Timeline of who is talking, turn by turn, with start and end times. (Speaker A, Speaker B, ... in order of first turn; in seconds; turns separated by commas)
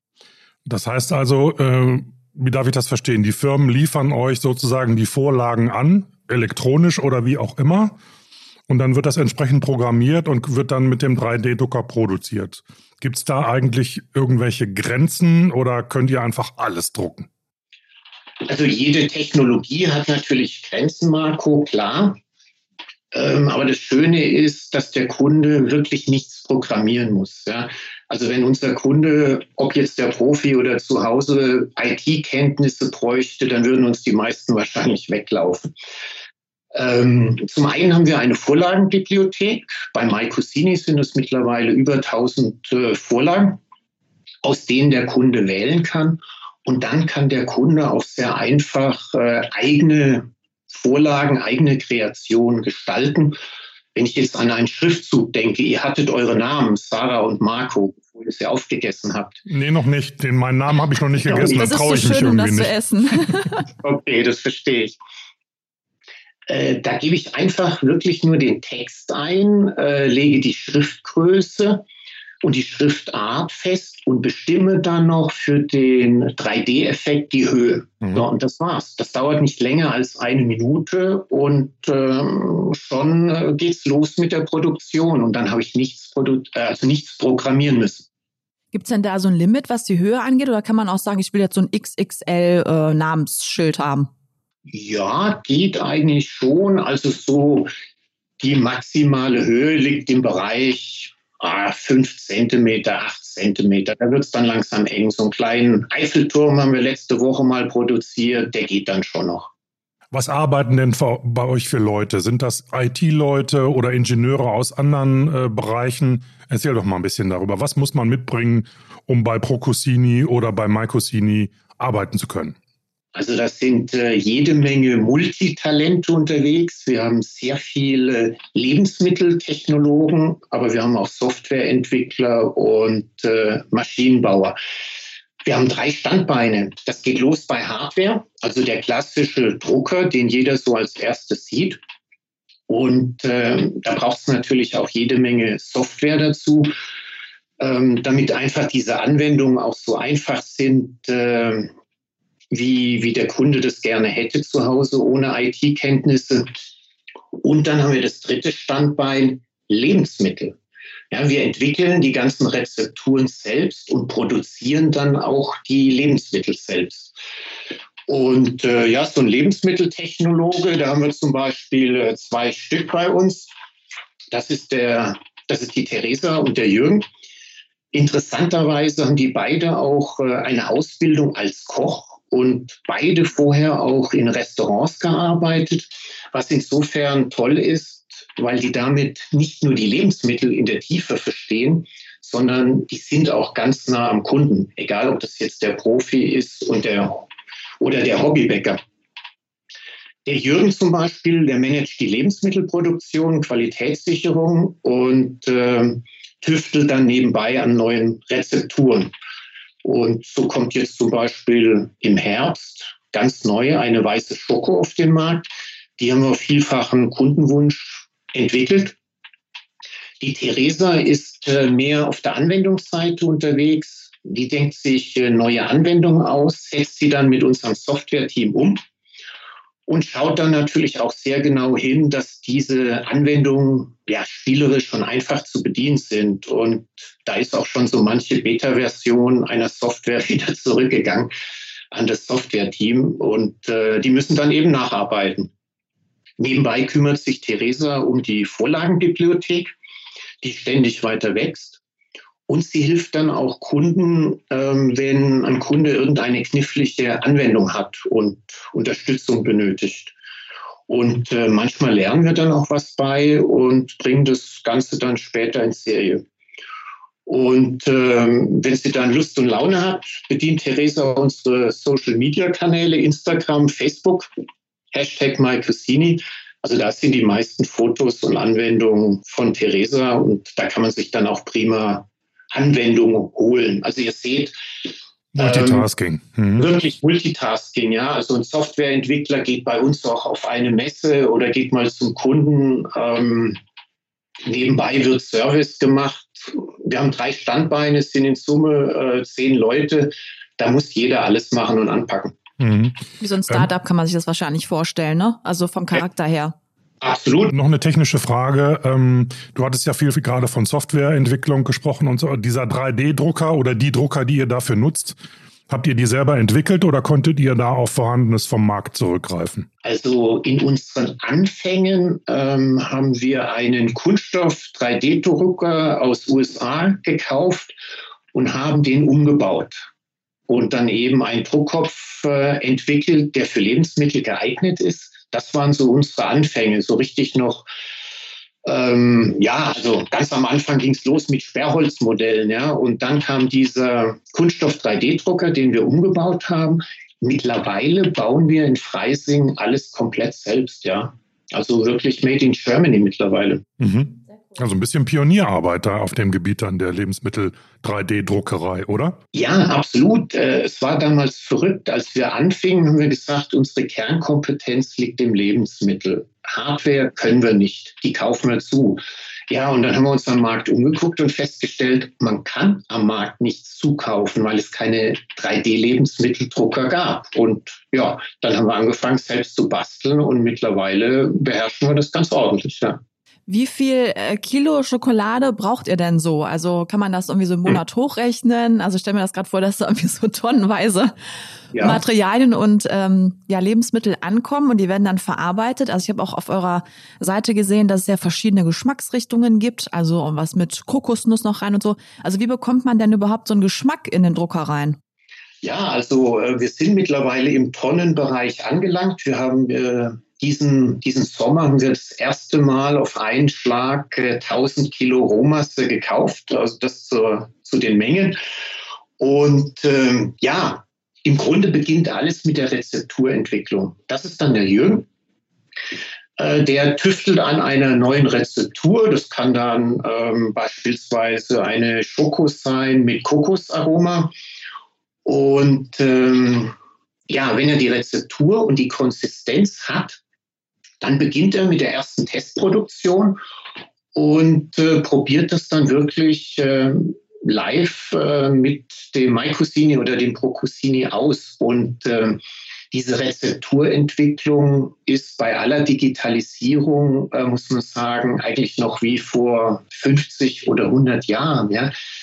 Speaker A: 0.7-8.0, Speaker A: 8.7-17.3, Speaker B: 18.5-22.2, Speaker B: 23.1-35.7, Speaker B: 36.7-43.6, Speaker B: 44.4-53.4, Speaker B: 54.0-59.4, Speaker A: 59.5-62.7, Speaker C: 61.2-63.6, Speaker B: 63.8-65.0, Speaker B: 66.5-71.8, Speaker B: 72.4-88.1, Speaker C: 88.7-94.1, Speaker B: 94.7-97.7, Speaker B: 98.4-109.5, Speaker A: 110.1-122.6, Speaker B: 123.1-134.6, Speaker B: 135.4-141.8, Speaker B: 142.7-146.7, Speaker B: 147.6-151.7, Speaker B: 152.5-156.7, Speaker B: 157.4-160.6, Speaker B: 161.1-167.1, Speaker B: 168.1-173.5, Speaker B: 174.3-177.1, Speaker B: 177.9-197.3, Speaker B: 197.8-198.8, Speaker B: 200.2-209.1, Speaker B: 209.8-215.5, Speaker B: 216.0-219.0, Speaker B: 220.2-228.8, Speaker B: 229.9-241.3, Speaker B: 241.9-245.5, Speaker B: 246.4-249.7, Speaker B: 250.4-251.8, Speaker B: 252.5-260.1, Speaker B: 260.9-266.2, Speaker B: 267.3-274.3, Speaker B: 274.9-285.9, Speaker A: 285.4-286.8, Speaker B: 286.6-293.6, Speaker B: 294.4-302.4, Speaker A: 302.6-303.7, Speaker C: 303.2-306.6, Speaker B: 307.0-307.5, Speaker A: 307.5-315.2, Speaker A: 315.7-319.7, Speaker B: 319.8-327.8, Speaker B: 328.3-329.9, Speaker B: 330.5-337.7, Speaker B: 338.6-353.6, Speaker A: 353.8-359.2, Speaker B: 359.3-383.0, Speaker C: 383.5-391.1, Speaker B: 391.7-392.0, Speaker C: 391.8-405.0, Speaker B: 405.6-418.4, Speaker B: 419.2-425.1, Speaker B: 426.4-434.3, Speaker B: 435.2-436.8, Speaker B: 437.3-440.2, Speaker B: 441.0-443.4, Speaker B: 444.1-461.9